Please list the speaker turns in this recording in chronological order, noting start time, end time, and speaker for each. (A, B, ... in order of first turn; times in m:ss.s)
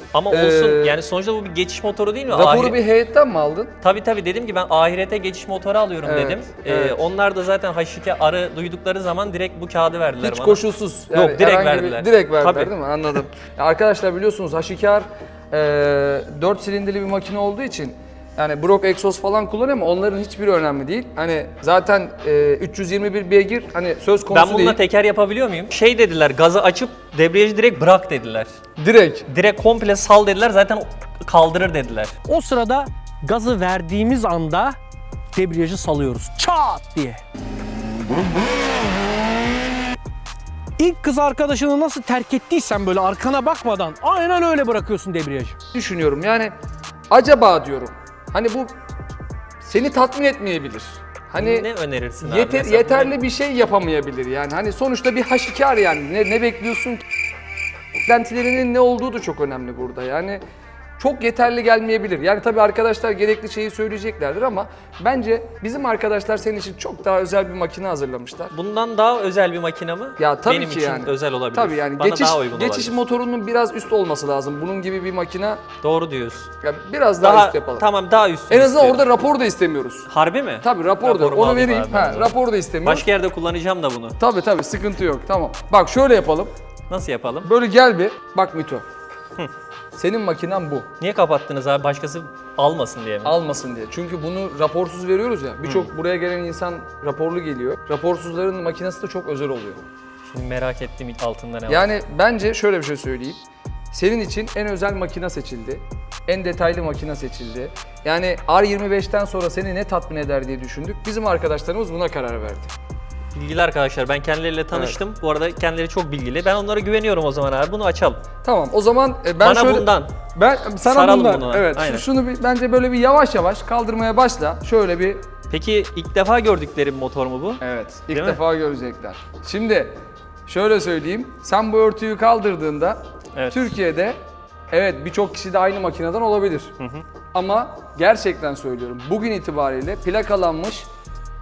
0:00.1-0:02.8 A
0:00.3-0:01.0 B
0:02.3-0:03.7 B
0:03.8-0:12.7 A
0:06.0-0:07.0 B
0:10.2-0:24.8 B
0:24.3-0:28.5 A
0:28.8-0:29.3 B
0:29.3-0:32.1 A
0:32.3-0:34.8 C
0:35.3-0:37.2 C
0:40.8-0:45.6 C
0:45.7-0:46.5 B
0:47.1-0:48.7 B
0:49.6-0:51.7 B
0:51.4-0:53.2 A
0:52.2-0:57.0 B
0:58.1-1:00.4 B
1:01.0-1:08.5 B
1:08.5-1:13.0 A
1:10.2-1:15.6 B
1:15.8-1:16.5 A
1:16.6-1:17.9 B
1:17.2-1:19.0 A
1:18.5-1:20.1 B
1:20.1-1:24.2 A
1:20.6-1:23.0 B
1:24.2-1:26.5 B
1:26.9-1:27.5 A
1:27.4-1:28.8 B
1:29.9-1:30.9 B
1:31.0-1:33.3 A
1:33.2-1:39.8 B
1:35.6-1:35.9 A
1:40.2-1:41.9 A
1:41.7-1:52.7 B
1:53.3-1:58.2 A
1:58.4-2:05.2 B
1:59.4-2:00.1 A
2:00.8-2:02.0 A
2:05.5-2:08.4 A
2:07.6-2:09.9 B
2:10.4-2:14.2 B
2:13.3-2:13.7 A
2:14.7-2:16.7 B
2:16.8-2:17.0 A
2:17.3-2:20.9 B